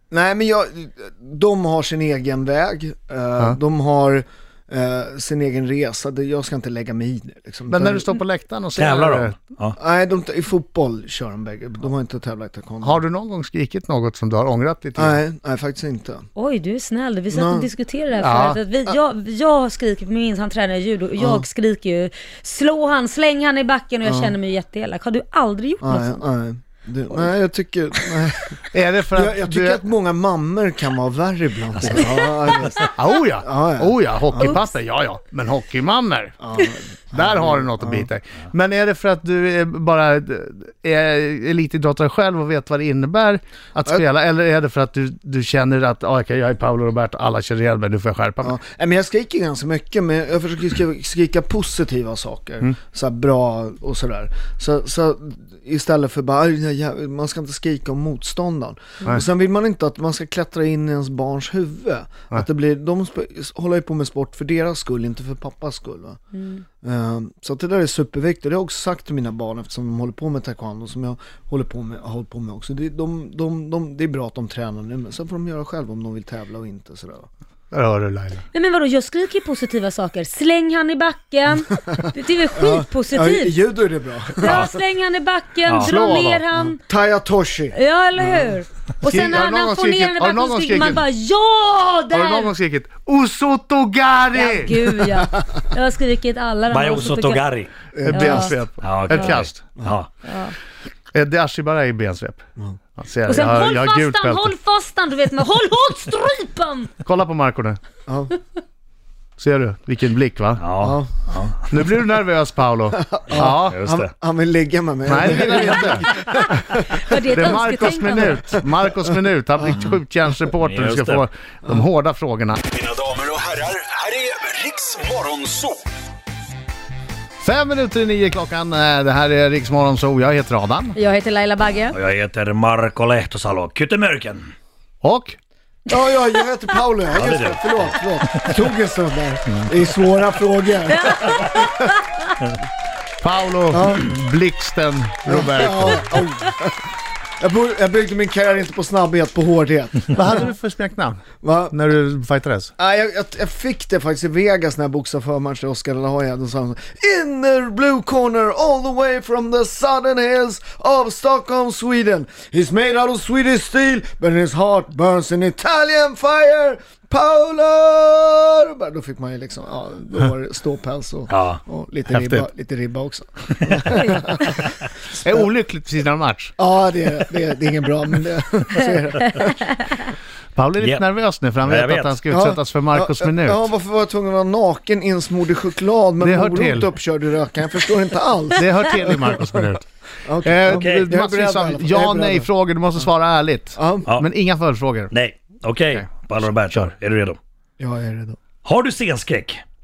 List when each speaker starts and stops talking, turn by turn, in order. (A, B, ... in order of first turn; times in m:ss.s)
0:00.1-0:08.0 A
0:07.7-0:09.3 B
0:08.8-0:09.8 C
0:09.8-0:13.0 A
0:12.8-0:15.2 B
0:15.0-0:16.3 A
0:16.4-0:26.1 D
0:17.3-0:17.7 A
0:18.2-0:18.6 B
0:21.2-0:21.5 A
0:24.0-0:24.4 A
0:25.8-0:28.6 A
0:28.7-0:29.8 B
0:29.1-0:34.6 A
0:31.8-0:32.1 C
0:32.9-0:36.4 B
0:36.4-0:38.1 A
0:37.1-0:48.6 B
0:48.4-1:06.2 A
1:06.3-1:06.6 D
1:06.8-1:17.3 A
1:17.7-1:18.4 B
1:18.5-1:23.5 D
1:22.5-1:24.7 A
1:24.4-1:26.8 D
1:25.7-1:26.1 C
1:25.8-1:26.4 B
1:26.9-1:28.5 A
1:27.7-1:32.5 D
1:29.0-1:31.0 B
1:32.1-1:35.0 B
1:34.3-1:37.4 D
1:36.7-1:37.7 C
1:37.9-1:38.6 A
1:38.0-1:39.6 B
1:38.1-1:38.5 D
1:38.8-1:40.1 C
1:40.2-1:40.5 D
1:41.1-1:42.4 B
1:43.0-1:44.5 B
1:43.3-1:47.0 D
1:47.0-1:47.8 B
1:48.1-1:48.3 A
1:49.4-1:50.6 B
1:50.6-1:51.6 C
1:50.8-1:51.1 A
1:51.7-1:53.8 B
1:52.9-1:57.0 A
1:53.3-1:54.1 C
1:55.1-1:56.1 B
1:57.0-1:58.4 D
1:57.3-2:02.6 B
2:00.6-2:01.2 C
2:02.9-2:05.8 E
2:07.4-2:11.0 B
2:10.9-2:12.0 D
2:11.9-2:14.4 C
2:15.0-2:15.4 B
2:15.9-2:21.6 A
2:17.1-2:18.6 C
2:23.2-2:26.1 B
2:23.7-2:24.1 A
2:25.2-2:26.9 A
2:27.4-2:30.5 A
2:30.1-2:32.7 B
2:31.4-2:31.8 A
2:32.8-2:54.6 A
2:51.3-2:51.6 C
2:52.1-2:52.5 B
2:55.1-2:56.5 B
2:56.6-2:59.8 A
3:00.5-3:03.7 B
3:00.8-3:01.0 C
3:01.6-3:02.2 C
3:02.3-3:09.6 A
3:06.2-3:06.9 B
3:08.6-3:09.8 B
3:10.2-3:12.5 A
3:10.4-3:15.1 B
3:10.7-3:11.1 C
3:13.8-3:14.1 A
3:15.1-3:17.4 C
3:16.6-3:16.9 B
3:17.8-3:18.4 A
3:18.6-3:19.6 C